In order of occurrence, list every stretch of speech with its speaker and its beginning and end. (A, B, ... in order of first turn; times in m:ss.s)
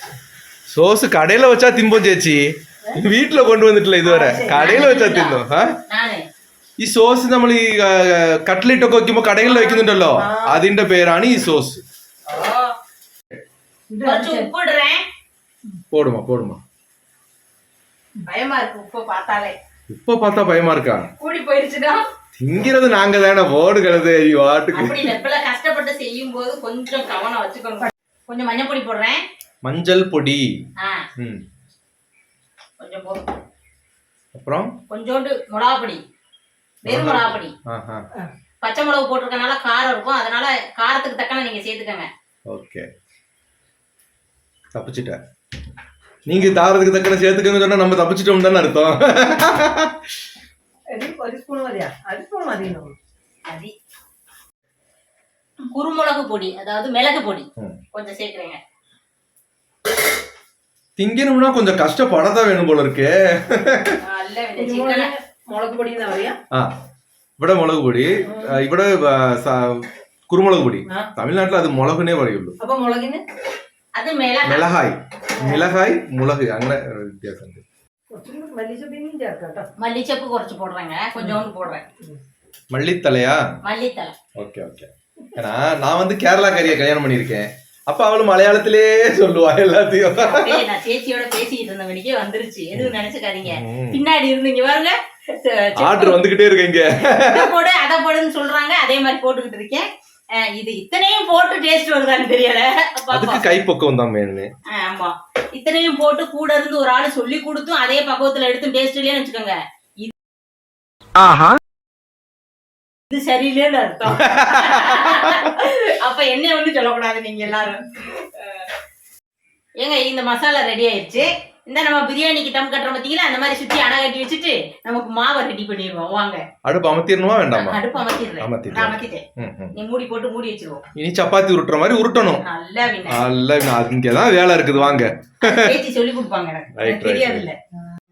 0:00.7-0:05.7 A
0:04.0-0:04.8 B
0:04.5-0:06.2 C
0:06.8-0:11.8 A
0:09.5-0:10.6 B
0:12.3-0:12.7 C
0:13.9-0:14.5 B
0:14.0-0:15.0 C
0:15.9-0:16.6 A
0:18.2-0:19.6 C
0:19.9-0:21.1 A
0:21.2-0:22.0 C
0:22.4-0:25.1 A
0:24.7-0:29.2 C
0:29.6-0:30.5 A
0:31.2-0:31.4 A
0:32.8-0:33.3 C
0:34.3-0:34.7 A
0:34.9-0:36.0 C
0:36.8-0:37.5 C
0:36.9-0:38.0 A
0:38.6-0:42.1 C
0:42.5-0:42.9 A
0:44.7-0:45.2 A
0:46.3-0:50.0 A
0:50.9-0:53.0 B
0:53.5-0:53.7 C
0:55.7-0:58.6 C
1:01.0-1:04.0 A
1:04.0-1:05.1 C
1:04.6-1:06.4 B
1:07.4-1:12.6 A
1:08.3-1:08.6 B
1:12.6-1:13.2 B
1:14.0-1:14.7 C
1:14.4-1:17.6 A
1:15.4-1:15.6 B
1:18.1-1:19.7 B
1:19.8-1:21.8 C
1:22.7-1:23.4 A
1:23.6-1:24.1 C
1:24.4-1:30.6 A
1:30.2-1:36.2 C
1:33.5-1:34.0 A
1:35.8-1:37.5 A
1:37.2-1:39.8 C
1:40.4-1:43.4 C
1:43.1-1:44.5 A
1:44.7-1:50.1 C
1:53.1-1:58.7 C
1:54.1-1:55.5 A
1:59.8-2:06.4 C
2:06.6-2:07.8 A
2:07.5-2:10.8 C
2:08.4-2:09.7 A
2:11.0-2:12.4 A
2:12.4-2:13.2 C
2:13.1-2:15.8 A
2:15.4-2:17.6 C
2:16.7-2:17.4 A